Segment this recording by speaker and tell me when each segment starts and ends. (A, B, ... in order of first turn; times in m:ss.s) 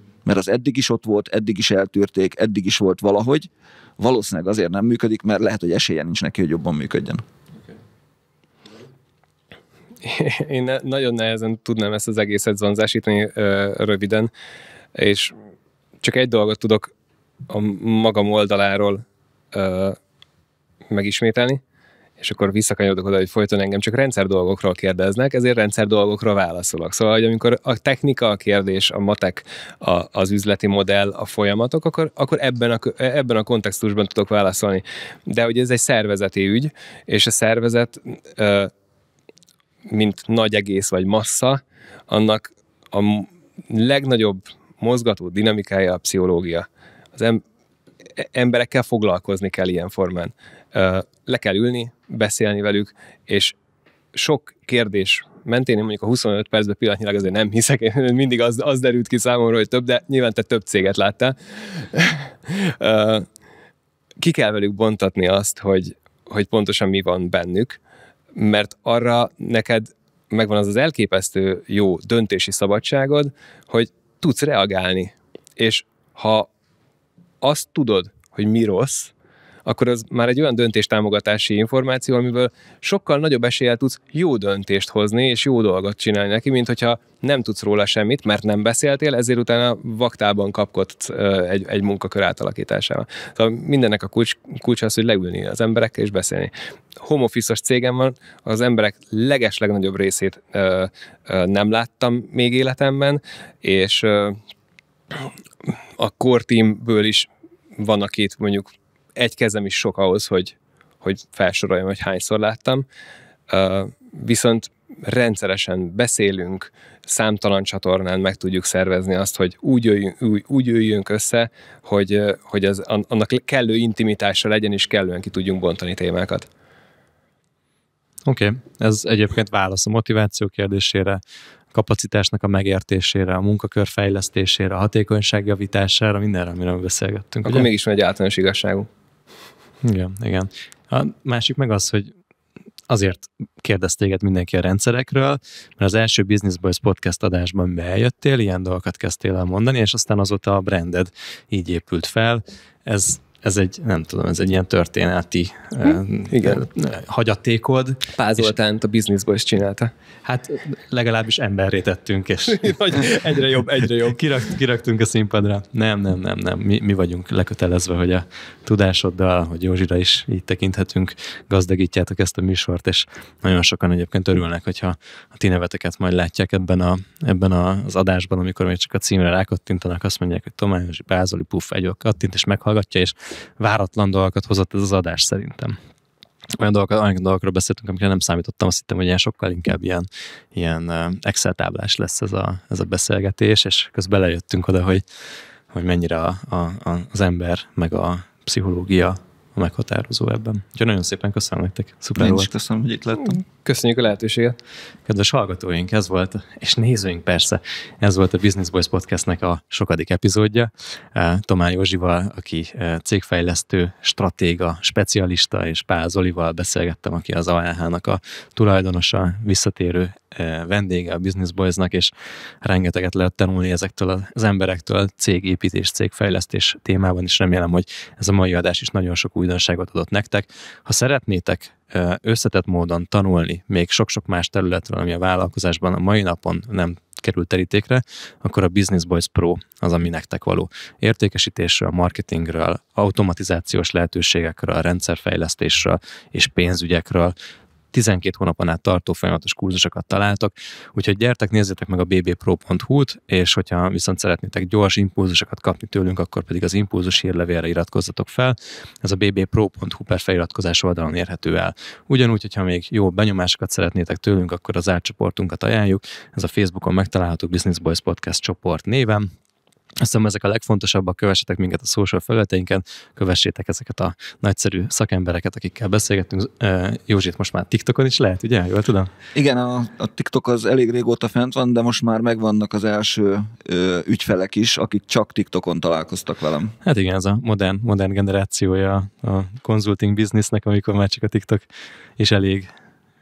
0:00.2-0:07.2 A
0:10.0-0:14.3 B
0:14.9-0:15.3 B
0:16.0-0:16.9 B
0:17.5-0:20.0 B
0:20.9-0:21.6 B
0:22.2-0:38.7 B
0:39.9-0:47.4 B
0:48.2-0:53.5 B
0:54.1-1:03.3 B
1:04.2-1:07.8 B
1:08.3-1:16.5 B
1:17.4-1:19.1 B
1:19.6-1:44.4 B
1:45.7-1:52.8 B
1:53.5-2:06.5 B
2:08.2-2:11.2 C
2:11.7-2:17.7 C
2:17.4-2:18.9 B
2:19.8-2:22.1 C
2:22.9-2:38.5 C
2:35.9-2:36.6 B
2:38.1-2:39.9 B
2:40.2-3:05.8 C
2:42.5-2:44.3 B
3:06.6-3:15.0 C
3:15.7-3:22.5 C
3:22.2-3:23.4 A
3:23.2-3:24.6 B
3:25.0-4:07.3 C
4:07.9-4:29.3 C
4:30.0-4:39.1 C
4:39.3-4:46.7 A
4:46.8-4:52.7 C